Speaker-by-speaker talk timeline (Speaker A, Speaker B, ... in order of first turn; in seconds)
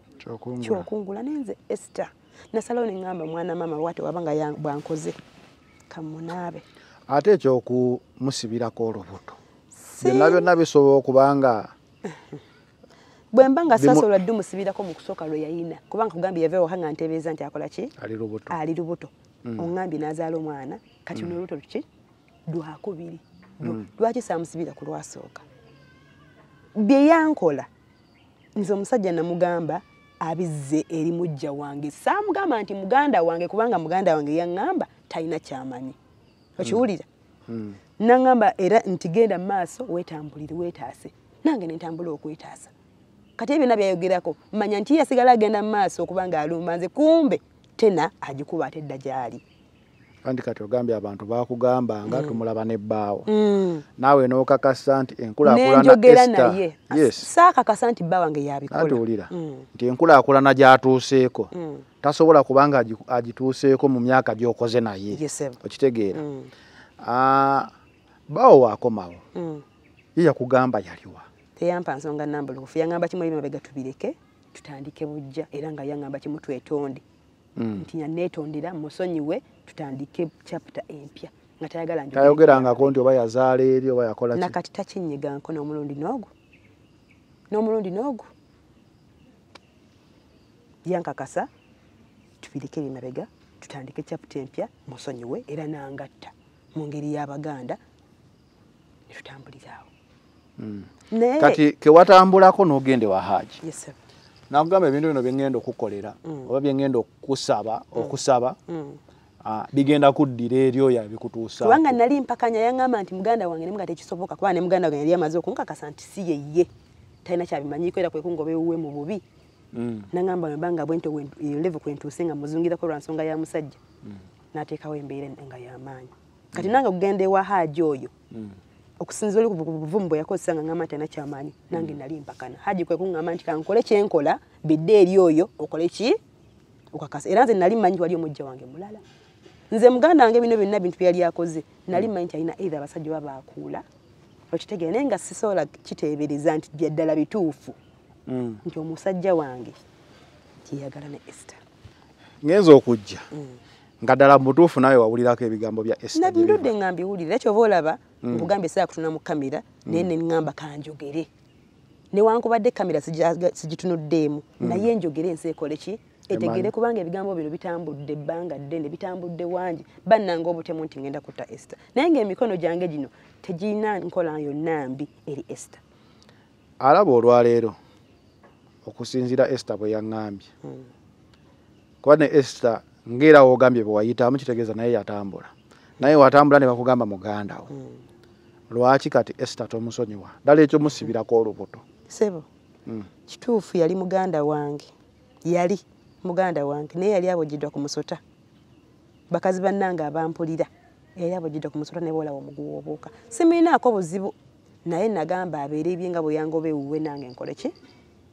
Speaker A: 0.2-0.9, 7.1-9.4, 10.0-11.7, 13.7-14.1, 18.0-18.5, 37.5-37.8, 50.2-53.3, 54.0-57.3, 58.7-61.5, 62.0-66.2, 67.0-67.7, 68.3-69.2, 70.2-71.2, 77.6-77.9, 82.1-84.5, 100.6-103.6, 104.5-108.6, 109.4-112.0, 119.7-120.1, 128.3-128.6, 148.3-148.6, 152.4-153.3, 154.0-156.7, 158.2-158.5, 164.6-164.9, 166.3-166.7, 176.8-177.8, 178.8-180.5, 182.0-187.7, 188.7-191.8
Speaker B: 0.6-5.2, 5.9-6.6, 9.8-10.5, 13.3-17.9, 18.5-21.8, 22.5-25.4, 26.7-27.7, 28.6-36.0, 36.6-37.0, 38.0-42.7, 43.4-49.4, 52.0-52.4, 53.3-53.8, 55.4-59.7, 61.5-61.8, 65.1-65.6, 66.1-66.5, 69.3-69.6, 71.5-77.0, 77.8-83.0, 84.3-86.3, 87.5-88.3, 90.8-91.5, 92.4-97.8, 99.1-99.9, 101.1-101.6, 103.6-103.9, 108.0-109.0, 111.6-116.7, 117.2-119.2, 120.1-123.8, 124.5-128.1, 129.0-136.2, 136.9-139.0, 139.7-143.8, 144.5-147.8, 148.6-149.8, 150.7-151.6, 156.1-161.3, 162.1-175.8, 180.6-180.9, 187.7-188.0, 192.1-192.4, 193.3-194.9, 195.4-198.2, 199.3-207.7